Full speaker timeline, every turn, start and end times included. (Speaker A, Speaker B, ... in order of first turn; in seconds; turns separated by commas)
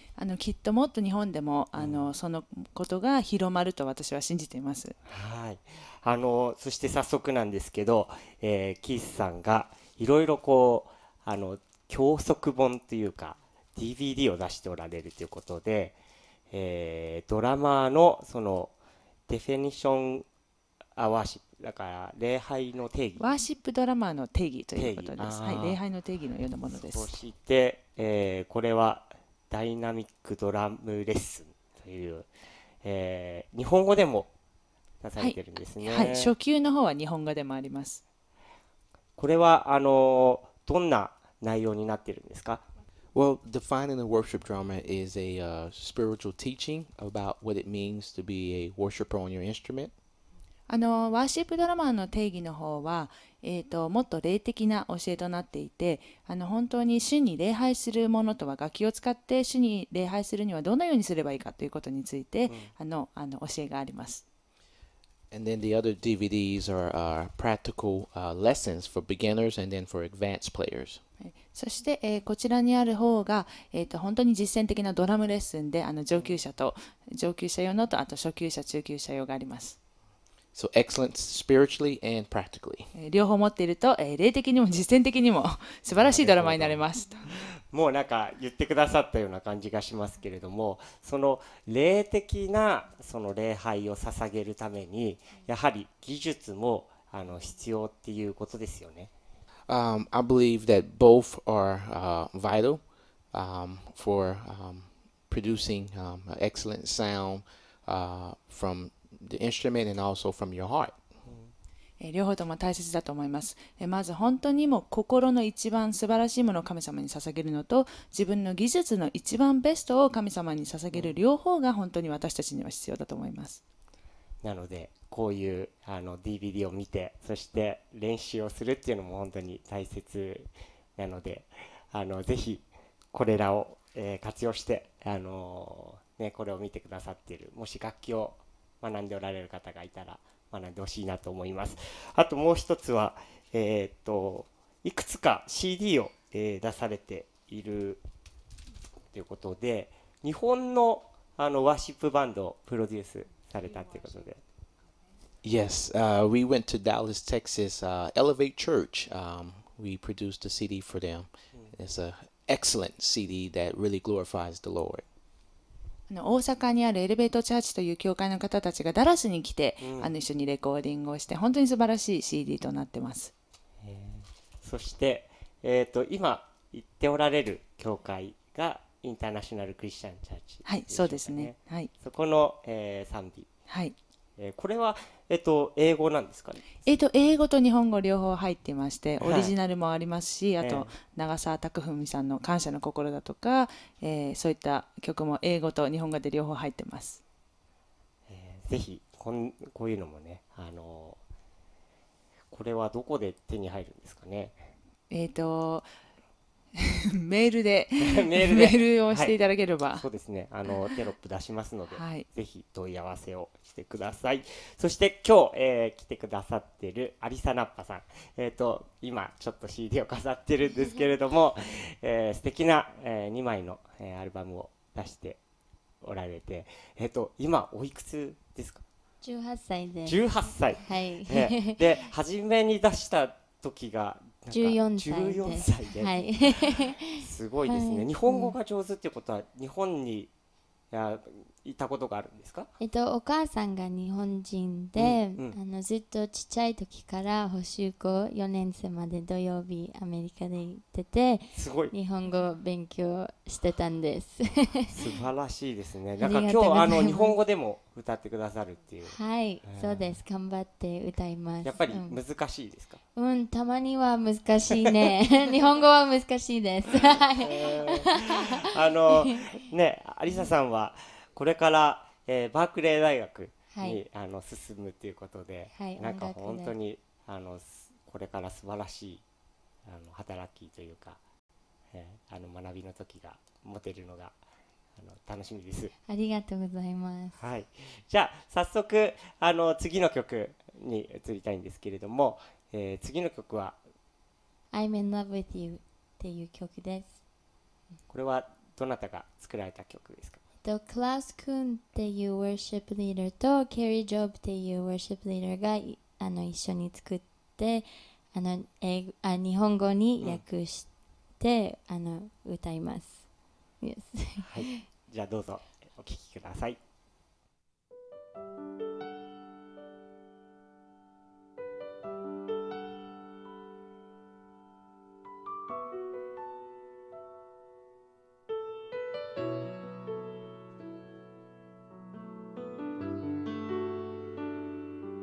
Speaker A: 0.2-4.9, Speaker B: 1.8-2.1, Speaker B: 5.0-15.9, Speaker B: 16.5-18.7, Speaker B: 19.3-20.2, Speaker B: 20.9-23.3, Speaker A: 23.2-27.1, Speaker B: 24.7-25.8, Speaker B: 26.7-32.3, Speaker B: 32.8-34.3, Speaker B: 35.0-36.3, Speaker A: 35.2-38.0, Speaker B: 39.2-42.6, Speaker C: 43.1-49.9, Speaker A: 50.7-64.2, Speaker B: 62.5-62.7, Speaker C: 65.3-71.0, Speaker A: 71.2-79.8, Speaker B: 76.1-76.4, Speaker C: 80.5-82.9, Speaker A: 82.9-87.4, Speaker B: 85.9-99.1, Speaker C: 99.7-111.0, Speaker B: 111.2-111.5, Speaker A: 112.0-123.6, Speaker B: 120.9-121.2, Speaker B: 124.4-148.0, Speaker B: 149.1-154.4, Speaker C: 155.4-165.0, Speaker A: 166.1-173.3, Speaker B: 169.8-170.1, Speaker B: 173.8-183.5, Speaker A: 180.6-181.9, Speaker A: 183.7-183.9, Speaker B: 184.4-186.8, Speaker A: 186.8-197.2, Speaker B: 189.2-189.5, Speaker B: 190.6-190.9, Speaker B: 198.3-201.2, Speaker B: 202.5-204.6, Speaker A: 205.1-205.9, Speaker A: 206.7-210.1, Speaker B: 208.0-209.4, Speaker B: 209.9-225.4, Speaker A: 211.9-212.2, Speaker B: 226.0-228.8, Speaker D: 229.2-231.8, Speaker B: 230.0-240.3, Speaker D: 234.5-238.6, Speaker B: 240.9-242.7, Speaker D: 242.8-255.0, Speaker B: 244.9-245.6, Speaker B: 251.5-251.9, Speaker B: 254.9-260.2, Speaker D: 256.2-257.4, Speaker D: 259.1-262.2, Speaker B: 261.6-263.0, Speaker D: 263.1-268.5, Speaker B: 267.4-279.2, Speaker D: 273.7-274.0, Speaker D: 275.7-276.7, Speaker B: 279.8-281.2, Speaker B: 281.9-284.3, Speaker B: 284.9-285.9, Speaker D: 286.1-287.4, Speaker B: 287.4-293.8, Speaker D: 294.7-297.2, Speaker B: 298.1-300.4, Speaker D: 300.6-314.8, Speaker B: 314.4-316.8